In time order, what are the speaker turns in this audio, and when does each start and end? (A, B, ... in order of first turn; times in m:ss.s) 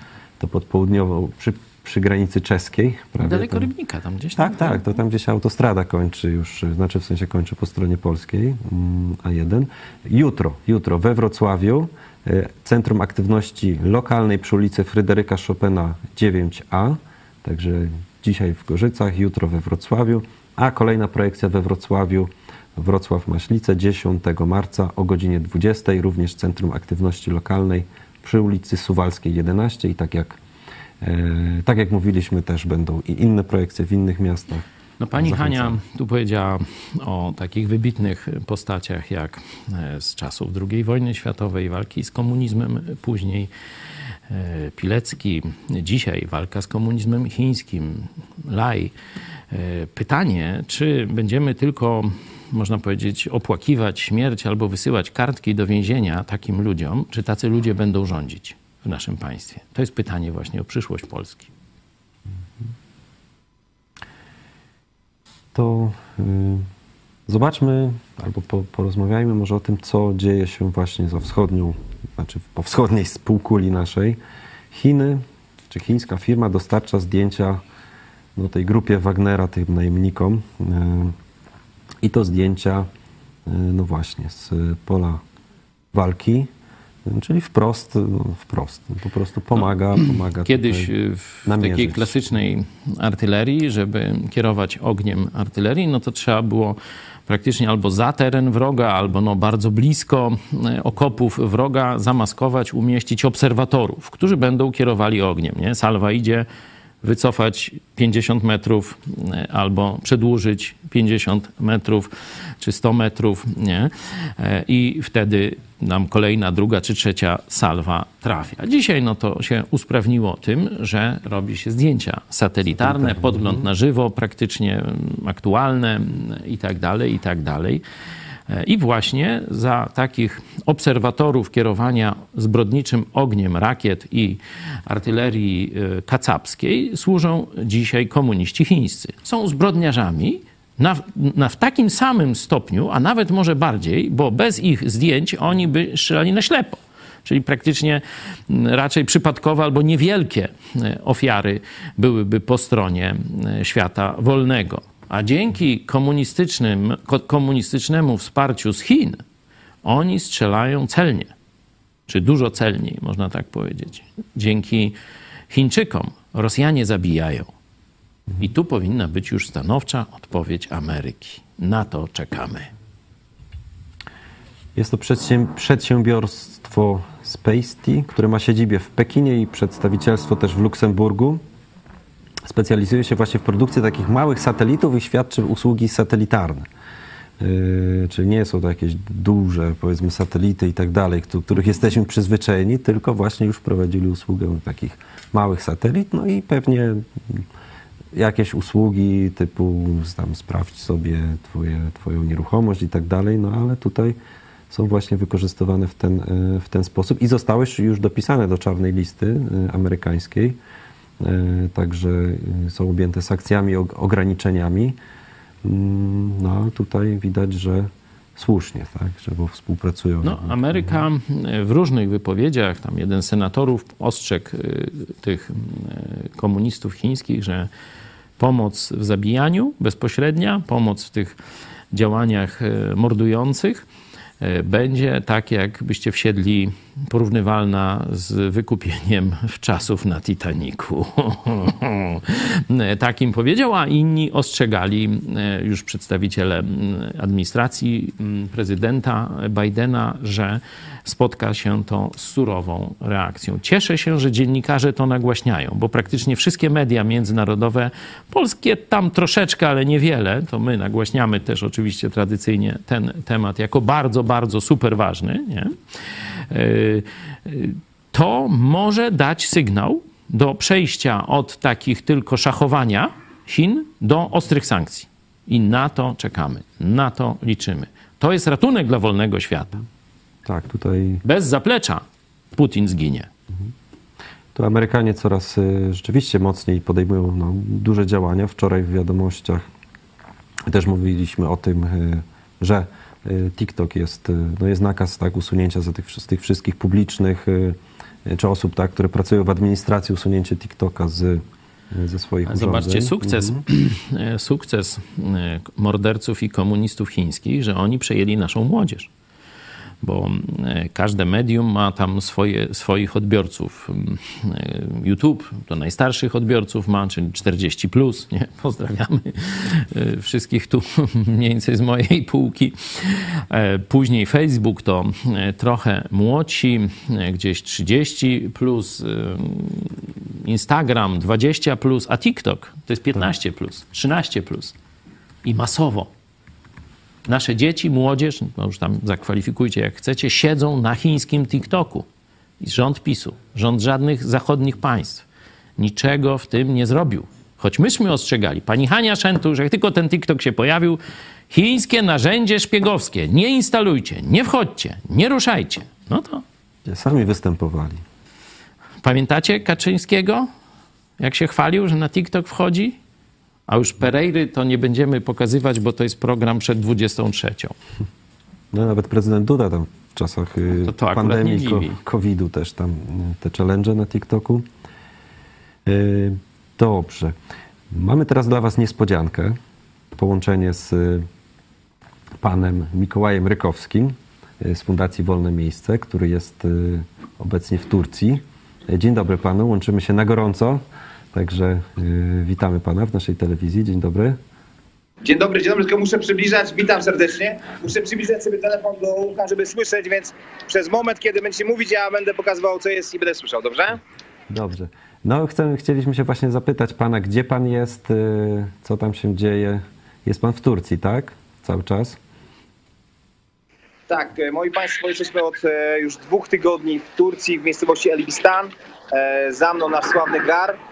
0:00.4-0:03.7 A
0:03.2-0:04.8 B
0:04.4-0:30.4 A
0:31.0-0:34.7 A
0:35.0-0:43.5 B
0:35.2-0:35.8 A
0:44.3-0:48.9 B
0:49.5-1:01.5 B
1:05.5-1:06.7 A
1:07.3-1:14.2 A
1:14.7-1:17.6 A
1:18.4-1:21.2 A
1:22.0-1:22.9 A
1:23.5-1:25.2 A
1:25.9-1:26.5 A
1:27.0-1:30.9 A
1:30.0-1:46.5 B
1:31.4-1:32.2 A
1:47.0-2:07.8 B
2:02.8-2:03.7 A
2:08.5-2:39.2 B
2:39.8-2:41.3 B
2:42.1-2:45.0 B
2:45.5-2:47.5 B
2:48.4-2:52.7 B
2:54.8-3:01.4 A
3:02.4-3:06.7 A
3:07.4-3:17.5 A
3:18.1-3:24.2 A
3:24.7-3:30.6 A
3:31.2-3:35.0 A
3:35.6-3:40.9 A
3:40.2-3:47.7 B
3:48.4-3:51.4 B
3:51.9-3:53.8 B
3:54.4-4:25.8 B
4:26.5-4:39.8 B
4:40.4-4:41.2 A
4:41.2-4:42.0 B
4:42.6-4:43.3 B
4:44.6-4:49.6 A
4:50.7-5:03.6 A
5:02.5-5:09.1 B
5:10.0-5:34.7 B
5:35.4-5:36.1 B
5:37.3-5:42.1 B
5:42.6-5:45.2 B
5:45.8-5:51.0 B
5:51.5-5:56.4 B
5:56.8-5:58.0 A
5:59.0-6:00.5 B
6:01.2-6:03.0 B
6:03.7-6:07.8 B
6:08.7-6:14.7 A
6:10.8-6:12.0 B
6:15.9-6:17.4 A
6:17.9-6:19.6 A
6:20.1-6:21.3 A
6:22.4-6:30.8 A
6:31.3-6:34.4 A
6:35.2-6:44.0 C
6:44.5-6:52.2 A
6:54.1-7:00.8 C